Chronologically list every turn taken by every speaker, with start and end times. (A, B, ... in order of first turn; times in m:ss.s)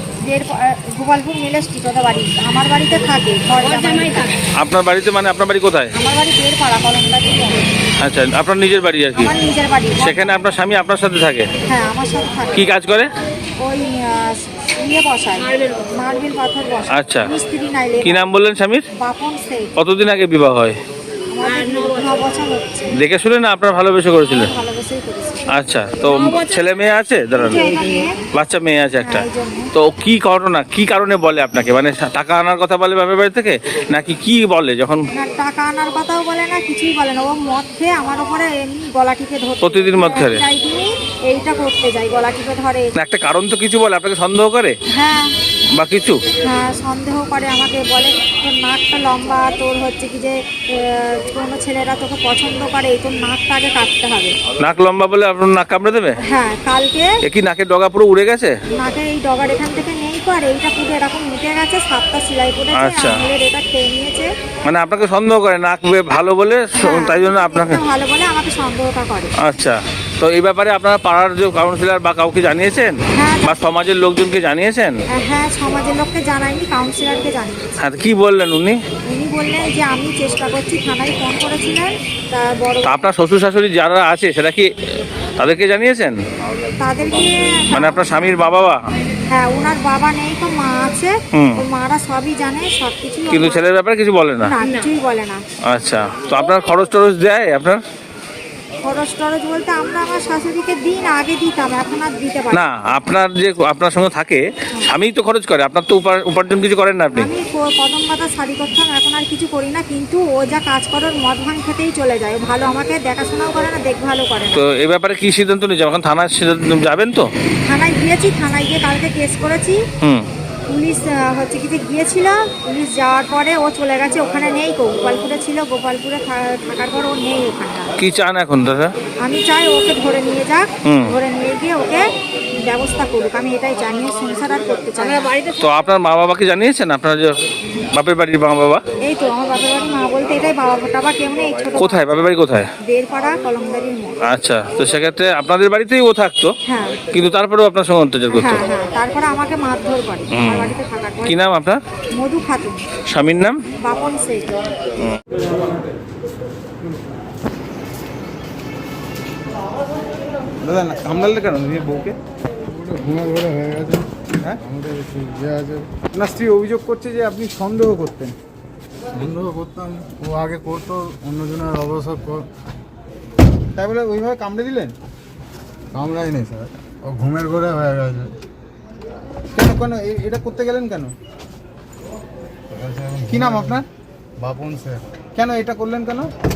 0:00.2-0:04.4 A
0:04.6-0:05.9 B
0:06.0-0:07.8 A
0:08.0-0:09.3 B
0:09.2-0:10.4 A
0:10.0-0:11.5 B
0:11.7-0:12.6 A
0:12.5-0:13.1 B
0:13.6-0:18.2 A
0:16.9-0:17.3 B
0:18.0-0:18.9 B
0:19.0-0:19.7 A
0:19.8-0:20.8 B
0:21.3-0:23.0 A
0:22.9-0:24.5 B
0:24.2-0:25.5 A
0:25.5-0:27.8 B
0:27.4-0:28.2 A
0:28.3-0:35.0 B
0:29.0-0:29.7 A
0:35.2-0:42.9 A
0:39.6-0:40.4 B
0:43.0-0:44.8 B
0:44.9-0:45.4 A
0:45.8-0:46.2 B
0:46.4-0:54.4 A
0:54.6-0:56.2 B
0:56.2-0:57.2 A
0:57.2-0:58.6 B
0:58.8-1:04.3 A
1:02.7-1:03.3 B
1:04.6-1:07.8 B
1:06.8-1:09.3 A
1:09.4-1:15.0 B
1:13.1-1:13.6 A
1:15.1-1:17.8 A
1:17.8-1:18.8 B
1:19.0-1:23.0 A
1:22.8-1:24.7 B
1:25.4-1:26.2 B
1:26.8-1:28.2 A
1:27.7-1:28.8 B
1:29.3-1:33.6 A
1:31.3-1:31.6 B
1:33.3-1:34.6 B
1:34.4-1:35.4 A
1:35.7-1:37.8 B
1:38.8-1:42.6 A
1:42.5-1:47.3 B
1:47.2-1:54.6 A
1:54.5-1:57.3 B
1:57.6-1:59.8 A
2:00.0-2:00.3 B
2:00.7-2:08.0 A
2:08.0-2:08.9 B
2:09.2-2:12.1 A
2:10.9-2:11.2 B
2:12.6-2:15.4 A
2:15.5-2:17.4 B
2:17.9-2:18.8 B
2:19.0-2:22.1 A
2:21.8-2:22.7 B
2:22.8-2:24.2 A
2:24.2-2:26.5 B
2:26.6-2:27.0 A
2:27.1-2:28.7 B
2:28.3-2:31.4 A
2:30.3-2:30.7 B
2:31.2-2:31.8 B
2:32.2-2:32.9 A
2:33.1-2:33.6 B
2:33.8-2:34.6 A
2:40.6-2:42.2 C
2:42.7-2:46.0 D
2:46.1-2:48.4 C
2:49.1-2:52.5 D
2:53.8-2:55.0 C
2:55.9-2:58.3 D
2:59.5-3:01.1 C
3:02.7-3:03.8 D
3:03.3-3:03.9 C
3:04.4-3:05.1 D
3:05.4-3:06.3 C